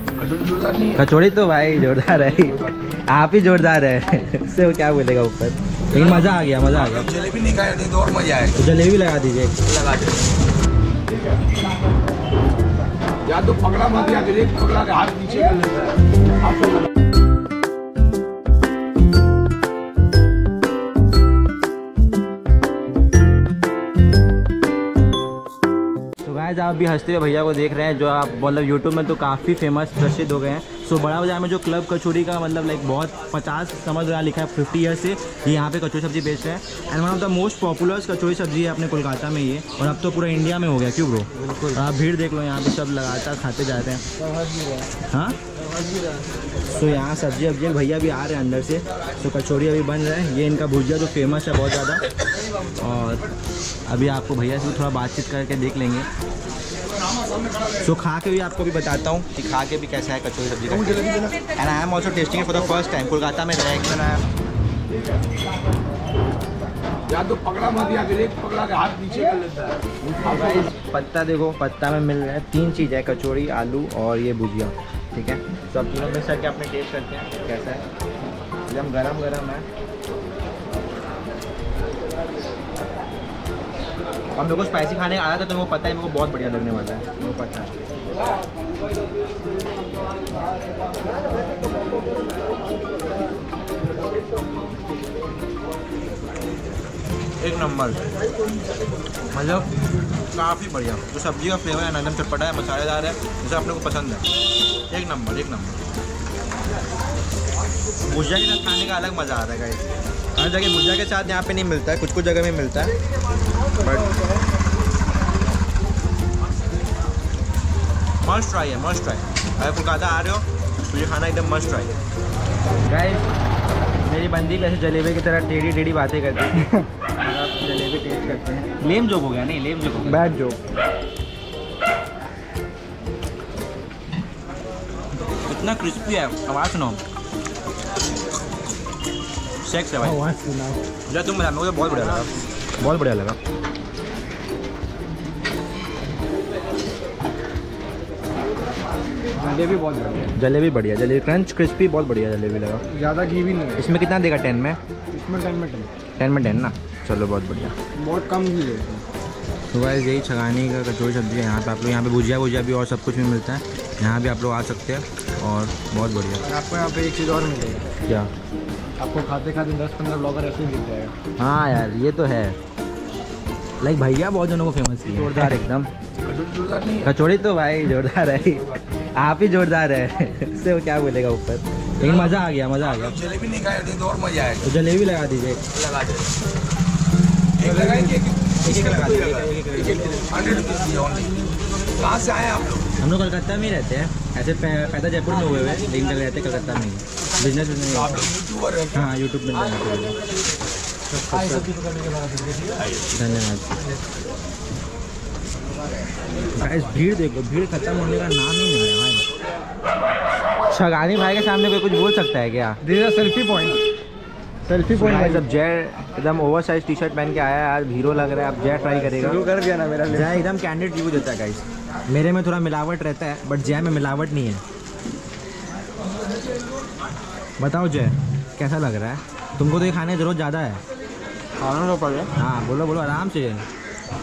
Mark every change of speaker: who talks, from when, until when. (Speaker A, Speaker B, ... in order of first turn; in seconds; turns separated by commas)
Speaker A: 0.2-1.0, Speaker B: 0.9-7.1, Speaker A: 5.9-8.6, Speaker B: 8.6-9.6, Speaker A: 9.7-10.2, Speaker A: 13.2-16.0, Speaker B: 26.2-44.0, Speaker C: 44.3-44.9, Speaker B: 45.1-45.4, Speaker B: 46.6-52.0, Speaker B: 52.7-53.3, Speaker B: 53.9-56.1, Speaker B: 57.8-64.2, Speaker C: 61.0-61.3, Speaker A: 67.1-69.8, Speaker B: 70.0-77.8, Speaker B: 78.7-79.7, Speaker B: 84.3-87.7, Speaker B: 97.4-98.0, Speaker B: 99.3-99.7, Speaker B: 100.3-104.3, Speaker B: 104.9-105.8, Speaker B: 108.0-112.9, Speaker B: 113.8-114.2, Speaker B: 118.2-121.9, Speaker B: 122.9-123.3, Speaker B: 124.0-130.3, Speaker C: 130.1-130.6, Speaker B: 135.4-137.0, Speaker B: 139.6-140.3, Speaker C: 140.2-140.8, Speaker B: 141.1-143.4, Speaker C: 149.4-150.3, Speaker B: 150.4-152.8, Speaker C: 152.9-153.9, Speaker B: 153.8-154.8, Speaker C: 155.1-155.9, Speaker B: 156.2-157.8, Speaker C: 157.9-159.1, Speaker B: 159.7-166.4, Speaker C: 166.4-167.9, Speaker C: 169.0-171.2, Speaker B: 171.4-172.6, Speaker B: 173.8-175.9, Speaker A: 176.2-177.1, Speaker B: 177.0-183.2, Speaker A: 182.0-184.7, Speaker B: 184.6-185.6, Speaker A: 185.7-186.3, Speaker A: 187.6-192.9, Speaker C: 187.6-188.3, Speaker B: 188.6-190.3, Speaker B: 193.0-198.3, Speaker A: 198.0-199.1, Speaker B: 198.9-200.2, Speaker B: 201.2-201.7, Speaker B: 203.1-203.8, Speaker B: 206.6-209.2, Speaker B: 210.7-212.8, Speaker C: 212.8-213.8, Speaker C: 214.7-215.5, Speaker B: 214.9-219.5, Speaker C: 219.0-220.4, Speaker B: 220.1-224.6, Speaker B: 227.6-230.8, Speaker C: 231.6-232.3, Speaker B: 232.4-233.7